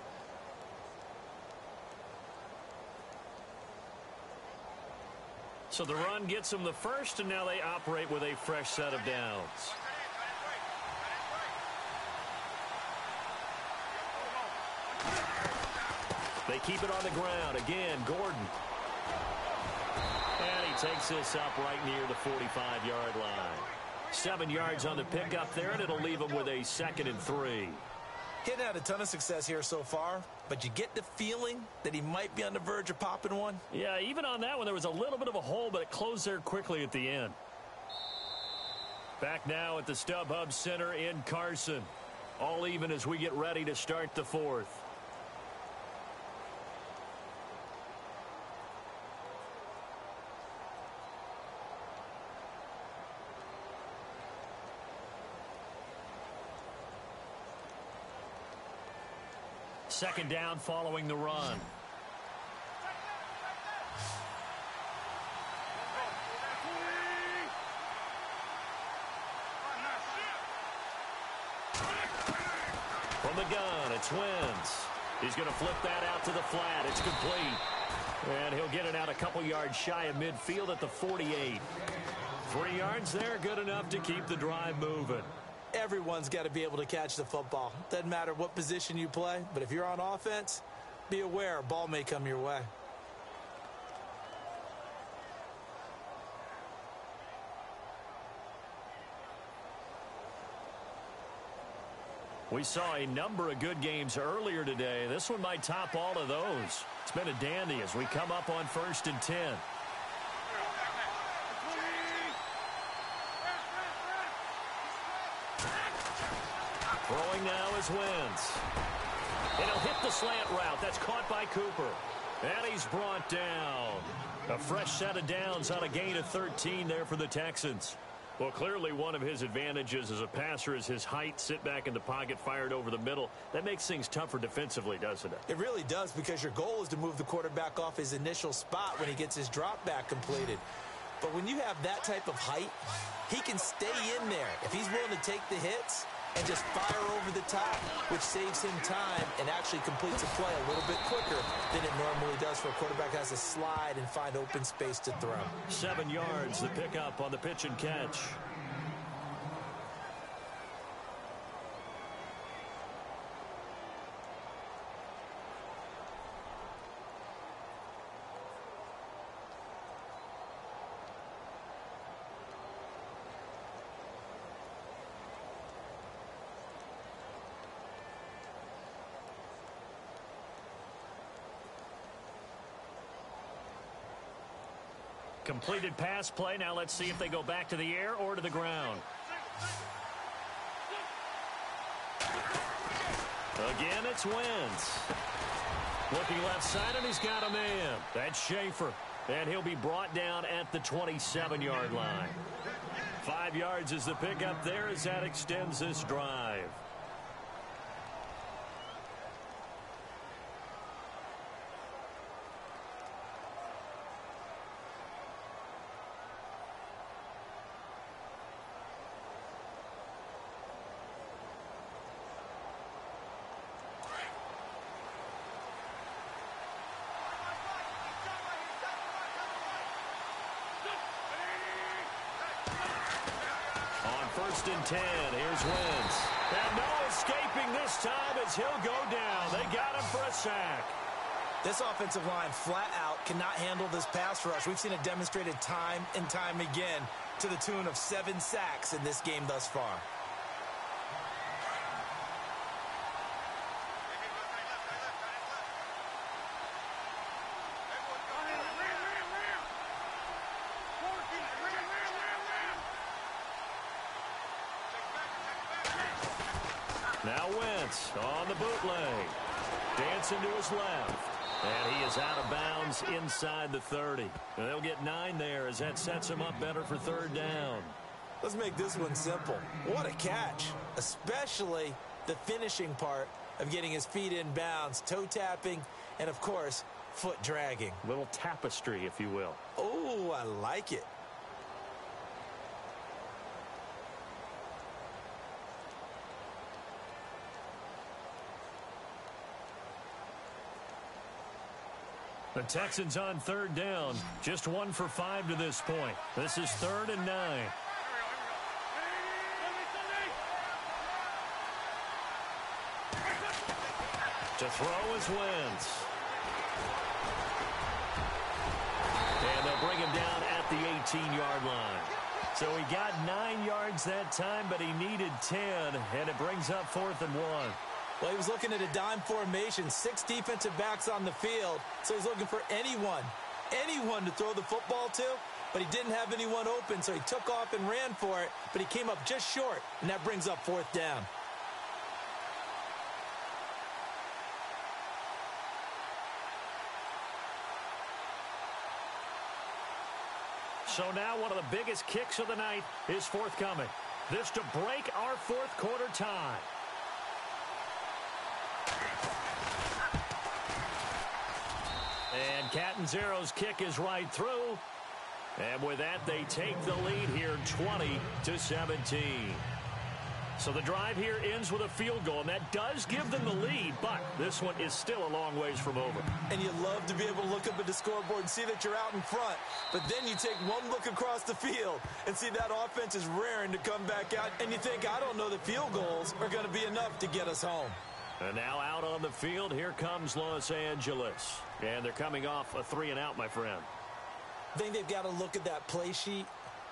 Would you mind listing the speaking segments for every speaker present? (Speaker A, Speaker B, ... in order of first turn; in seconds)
Speaker A: 5.7-9.8, 16.4-18.5, 20.4-27.8, 33.7-37.4, 39.2-44.8, 59.9-61.7, 73.2-77.6, 78.2-81.7, 82.5-85.3, 102.5-109.6, 117.1-118.6, 119.6-135.4, 155.7-158.4, 185.4-189.1, 193.6-195.1, 196.1-202.4, 203.2-206.8, 234.0-241.0, 267.2-269.4, 269.9-278.0, 288.0-289.6, 302.5-307.8, 314.6-316.1, 319.4-327.8, 350.9-356.7, 362.3-364.8, 365.6-369.6, 370.6-376.3, 388.4-393.9
Speaker B: 28.4-33.6, 85.7-92.7, 135.5-140.6, 141.2-155.5, 241.6-250.1, 278.4-288.0, 289.8-291.1, 328.2-341.3, 376.5-388.0, 394.7-396.5